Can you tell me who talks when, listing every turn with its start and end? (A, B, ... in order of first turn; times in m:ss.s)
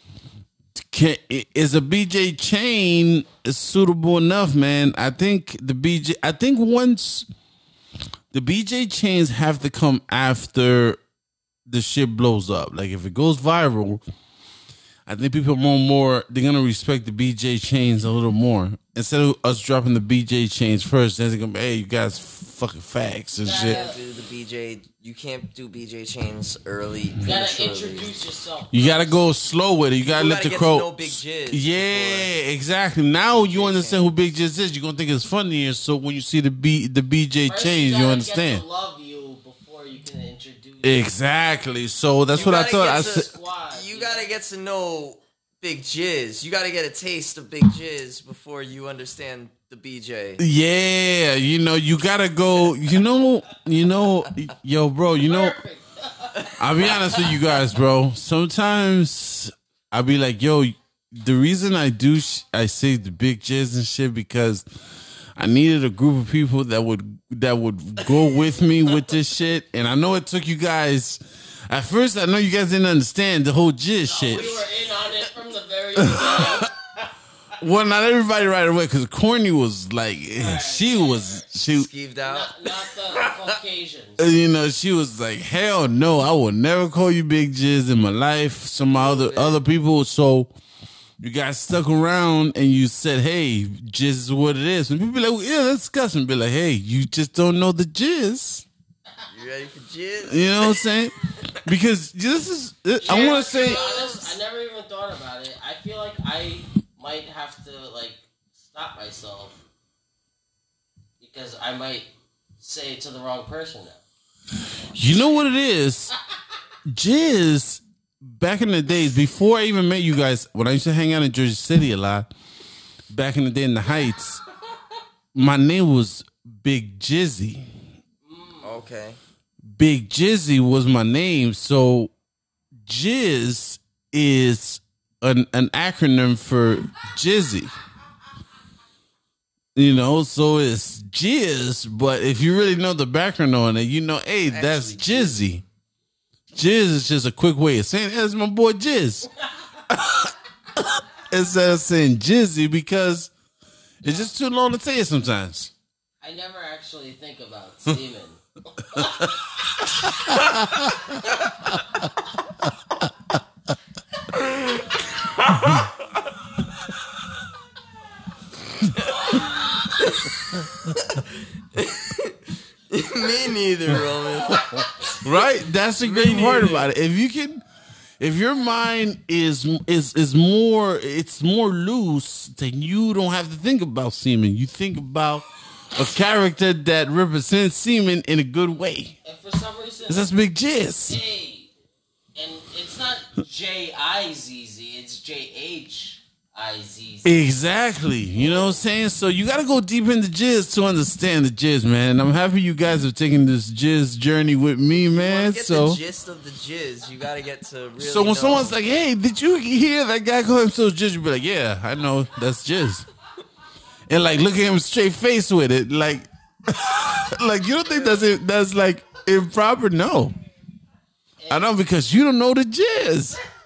0:00.8-0:07.3 A
0:08.3-0:11.0 A
0:11.7-0:14.0 A
0:15.0-0:23.8 A
0:23.4-0:24.0 B
0:23.5-0:28.2 C
0:27.2-0:29.3 B
0:28.7-0:38.6 A
0:30.1-0:32.3 C
0:33.3-0:34.2 C
0:37.5-0:41.1 B
0:40.8-0:43.3 A
0:42.3-0:50.4 C
0:42.4-0:44.3 B
0:50.4-0:55.6 A
0:55.2-0:56.9 B
0:56.6-1:04.7 A
1:05.4-1:14.6 A
1:14.0-1:16.9 B
1:17.6-1:21.9 A
1:20.4-1:21.6 B
1:21.7-1:23.5 C
1:22.2-1:24.2 B
1:24.2-1:30.5 A
1:28.9-1:29.6 C
1:31.2-1:38.6 A
1:39.3-1:40.8 C
1:40.2-1:43.8 A
1:43.0-1:49.6 B
1:43.0-1:44.3 C
1:51.2-1:54.0 B
1:54.9-1:56.1 A
1:56.9-2:02.3 A
2:03.1-2:04.4 A
2:05.3-2:07.7 A
2:08.2-2:08.8 B
2:08.6-2:09.2 C
2:09.6-2:12.1 A
2:12.8-2:17.7 A
2:19.7-2:25.6 A
2:24.4-2:25.6 C
2:26.5-2:29.3 A
2:29.9-2:33.3 A
2:34.0-2:35.7 A
2:36.2-2:39.3 B
2:40.3-2:41.0 A
2:44.3-2:45.2 C
2:49.1-2:50.6 C
2:51.1-2:52.3 C
2:52.9-2:55.1 C
2:55.1-2:57.6 A
2:56.0-2:56.9 C
2:58.2-3:09.2 A
3:09.2-3:10.3 B
3:10.1-3:11.2 A
3:11.1-3:11.7 B
3:12.3-3:17.4 B
3:17.2-3:26.0 A
3:18.4-3:18.8 B
3:25.0-3:28.8 C
3:28.0-3:33.1 A
3:34.1-3:40.3 A
3:41.4-3:41.7 B
3:41.5-3:43.4 A